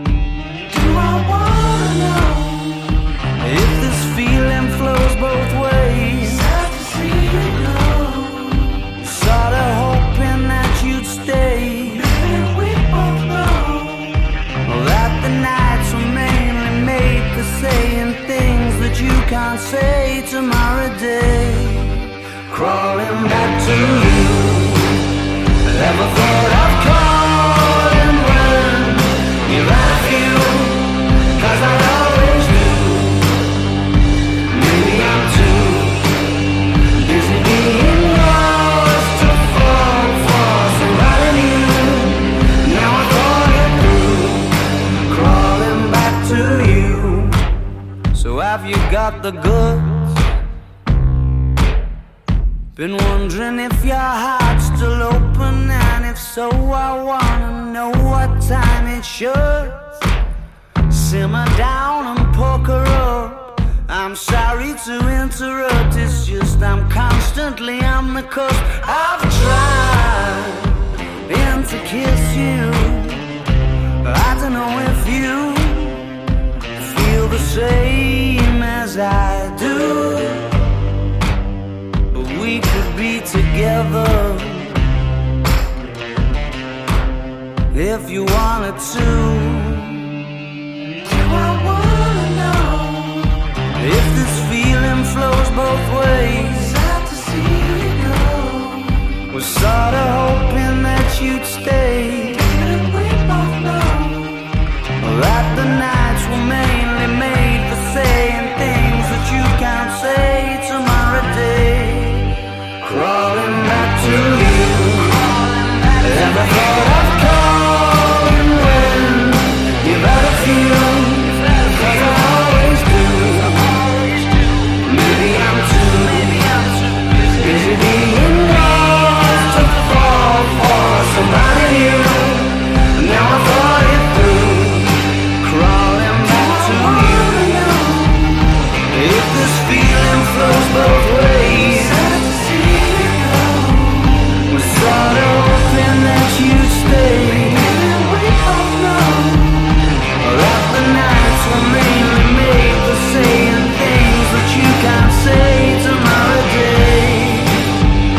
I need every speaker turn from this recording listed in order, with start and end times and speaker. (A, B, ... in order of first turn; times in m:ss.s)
0:00.7-0:02.7 A
0:03.4-0:06.6 A
0:07.2-0:08.1 A
0:08.9-0:14.0 A
0:14.6-0:25.1 A
0:25.6-0:33.4 A
0:34.5-0:36.1 A
0:36.9-0:47.4 A
0:48.1-0:49.9 A
0:52.8-0:59.8 A
1:00.9-1:13.3 A
1:14.0-1:16.1 A
1:16.8-1:20.6 A
1:22.1-1:24.9 A
1:27.7-1:30.2 A
1:31.1-1:33.0 A
1:33.8-1:44.4 A
1:45.0-2:18.4 A
2:18.9-2:37.7 A